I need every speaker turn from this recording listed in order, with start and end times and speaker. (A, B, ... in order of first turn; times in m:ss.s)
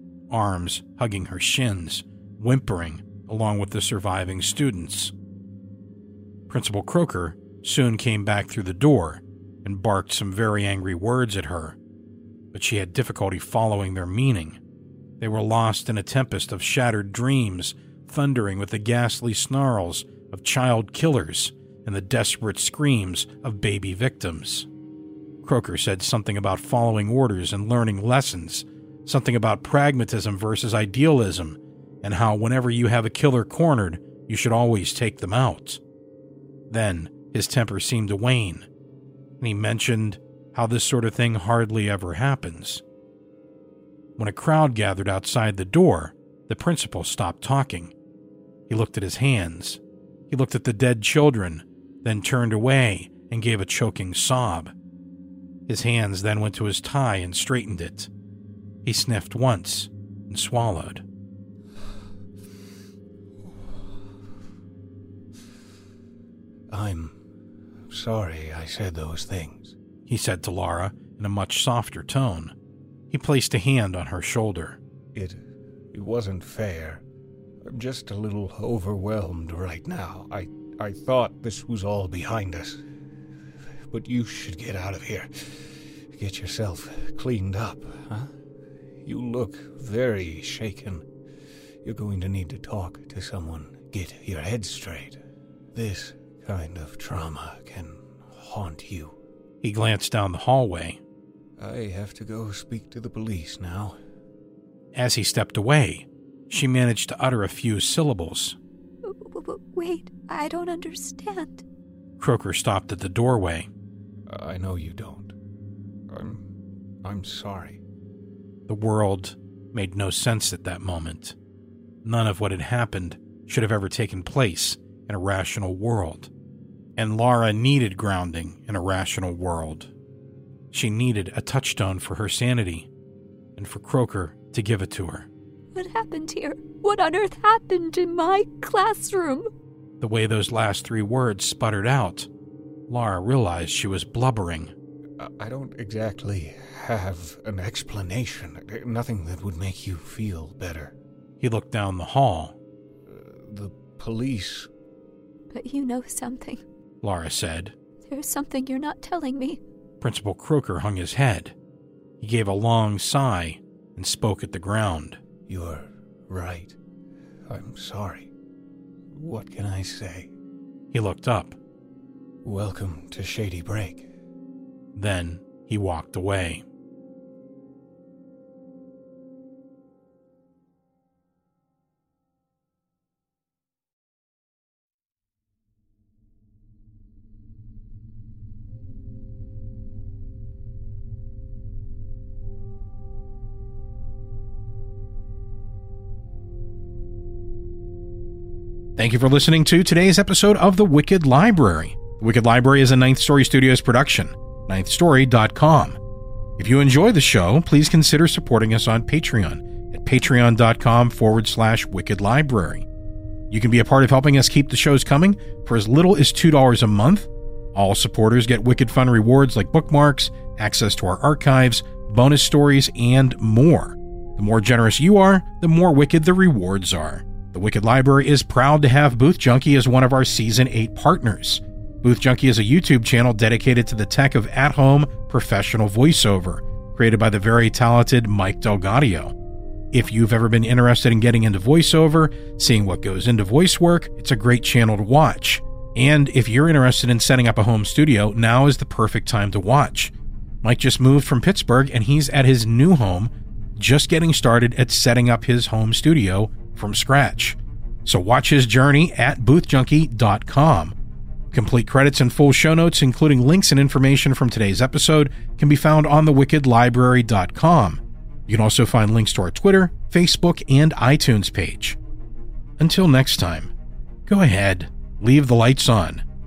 0:00.3-0:05.1 A
0:06.5-0:11.8 A
0:12.5-0:14.6 A
0:15.2-0:24.7 A
0:25.4-0:35.8 A
0:36.7-0:38.7 A
0:39.4-0:42.8 A
0:44.2-0:47.9 A
0:48.7-0:54.7 A
0:55.7-0:58.1 A
0:58.8-1:01.0 A
1:06.7-1:07.2 B
1:07.9-1:09.8 B
1:10.1-1:12.5 A
1:13.1-1:14.8 A
1:15.1-1:15.4 B
1:15.9-1:17.0 B
1:17.6-1:22.8 B
1:23.9-1:28.3 B
1:29.0-1:31.0 B
1:31.8-1:35.2 B
1:35.7-1:39.1 B
1:39.6-1:41.0 A
1:41.6-1:44.0 B
1:44.9-1:48.6 A
1:49.0-1:51.6 C
1:52.2-1:53.7 A
1:54.3-1:55.3 B
1:56.1-1:56.4 B
1:57.0-1:57.8 B
1:58.7-2:01.4 A
2:02.0-2:06.3 A
2:07.0-2:09.9 A
2:10.7-2:12.9 A
2:13.6-2:15.3 A
2:15.7-2:19.5 C
2:20.0-2:22.3 A
2:22.9-2:24.7 A
2:25.2-2:31.0 B
2:31.4-2:32.6 A
2:33.0-2:34.7 B
2:35.5-2:36.6 C
2:37.0-2:37.8 A
2:38.0-2:39.6 C
2:40.0-2:41.5 A
2:42.2-2:45.2 A
2:45.5-2:46.8 B
2:47.5-2:48.3 B
2:49.1-2:50.3 B
2:50.9-2:51.6 A
2:52.4-2:54.1 B
2:54.9-2:56.6 A
3:19.0-3:26.0 A
3:26.6-3:32.9 A
3:33.5-3:59.3 A
3:59.9-4:21.0 A
4:21.5-4:32.0 A
4:32.8-4:33.7 A
4:34.3-4:36.2 A